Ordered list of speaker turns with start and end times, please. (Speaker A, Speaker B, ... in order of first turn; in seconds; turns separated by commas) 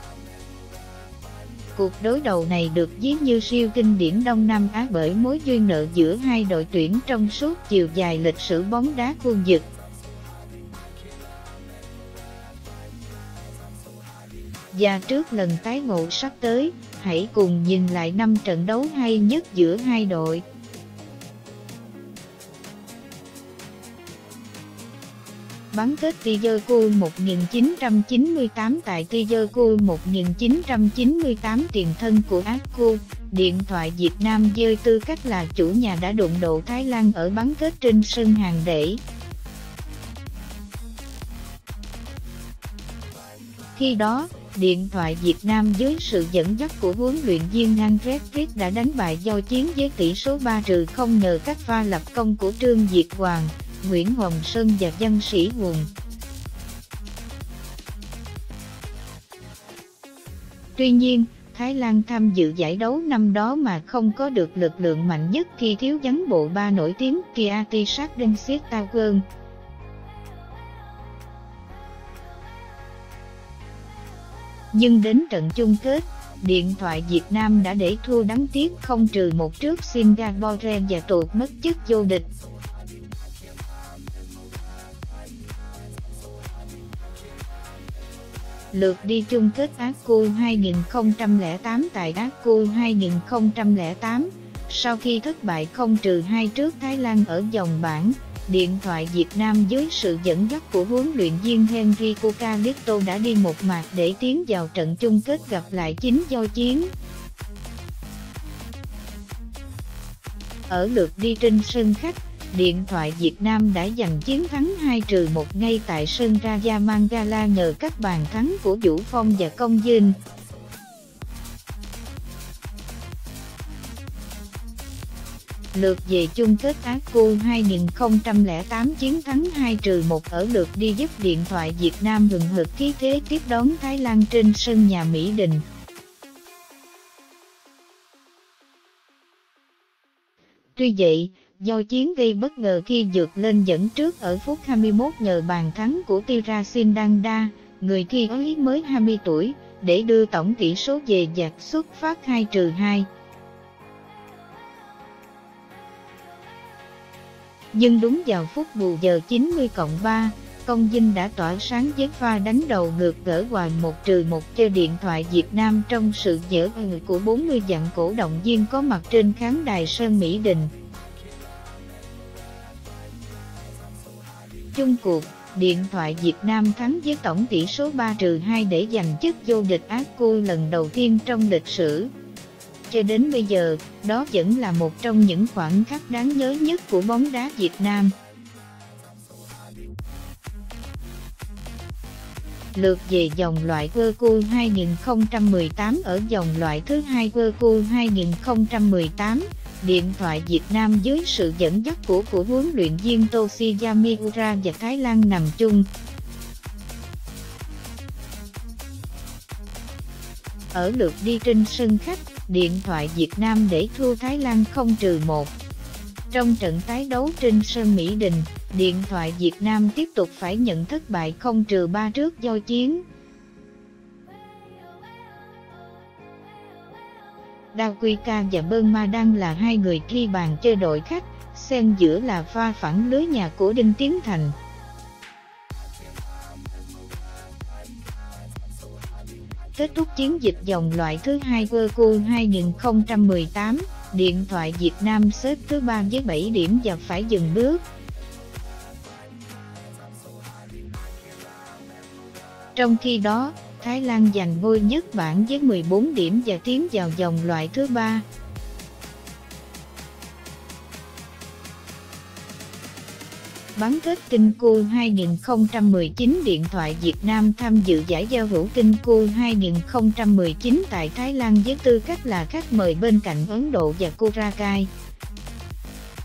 Speaker A: 1.8-9.7, Speaker A: 14.7-20.4, Speaker A: 25.7-39.0, Speaker A: 43.8-55.9, Speaker A: 60.8-69.2, Speaker A: 74.7-82.3, Speaker A: 88.7-106.9, Speaker A: 110.7-120.2, Speaker A: 125.7-135.7, Speaker A: 140.8-153.1, Speaker A: 157.7-170.7, Speaker A: 174.7-182.1, Speaker A: 182.9-188.2, Speaker A: 192.7-205.9, Speaker A: 210.7-215.5, Speaker A: 216.3-223.0, Speaker A: 227.7-234.6, Speaker A: 239.8-247.8, Speaker A: 252.8-258.2, Speaker A: 263.8-274.9